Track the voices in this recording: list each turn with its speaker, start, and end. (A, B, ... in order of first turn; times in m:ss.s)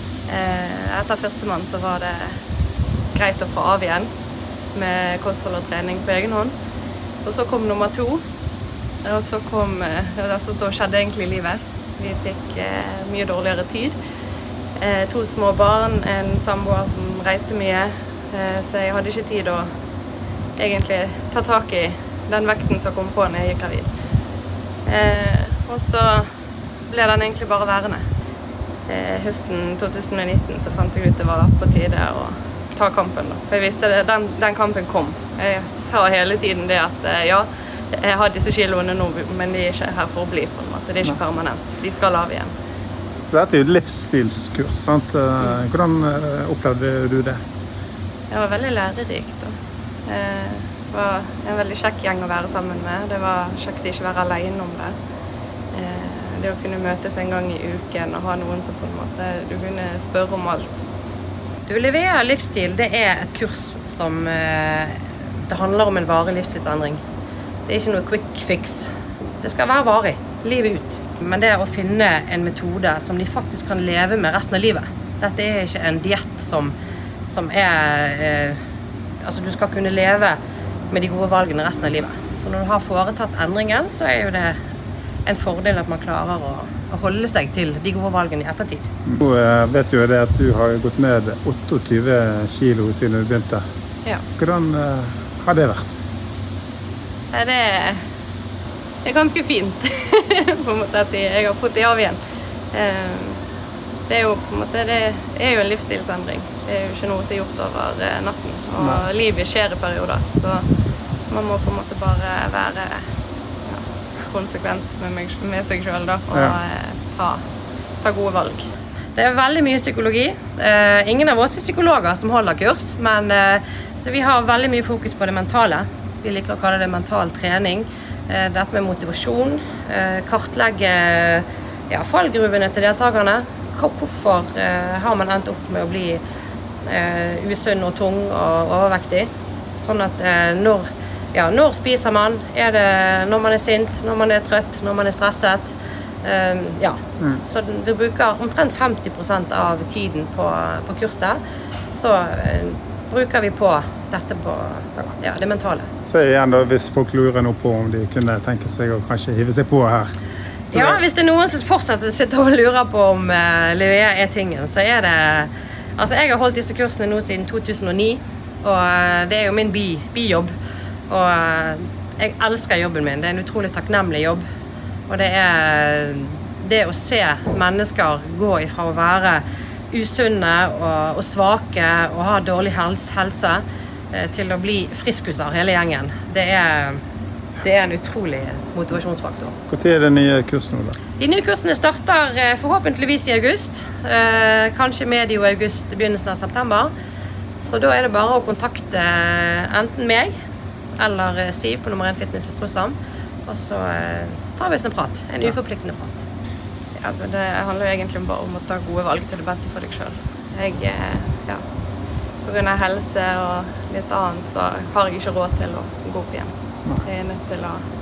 0:00.3-0:02.4 A
0:03.1-0:04.1 A
0:04.7-0:06.5 A
0:07.2-0:08.2 A
0:09.0-0:14.0 A
0:14.8-0:19.7 A
0:20.6-0:24.0 A
0:24.8-0:26.3 A
0:26.9-0:28.0 A
0:28.9-0:42.5 A
0:43.3-0:47.4 B
0:48.3-0:49.5 A
0:50.0-0:54.9 A
0:55.7-1:00.8 A
1:01.7-1:07.0 C
1:07.6-1:08.9 C
1:09.4-1:16.7 C
1:17.3-1:18.6 C
1:19.2-1:20.4 C
1:20.9-1:24.6 C
1:25.2-1:28.9 C
1:29.1-1:33.6 B
1:34.4-1:35.9 B
1:37.3-1:38.0 A
1:39.0-1:42.2 A
1:42.7-1:43.4 A
1:44.1-1:50.7 A
1:51.3-1:53.1 A
1:53.6-1:57.4 A
1:58.0-1:58.6 A
1:59.1-2:16.2 C
2:16.8-2:31.4 C
2:31.9-2:35.9 C
2:36.1-2:40.1 B
2:40.7-2:50.5 C
2:40.7-2:41.0 B
2:51.1-2:54.4 C
2:55.1-3:07.0 C
3:07.6-3:09.5 C
3:09.7-3:11.0 B
3:11.2-3:16.9 C
3:17.6-3:20.3 C
3:21.0-3:22.9 C
3:23.4-3:26.2 C
3:27.0-3:31.6 A
3:32.4-3:37.8 A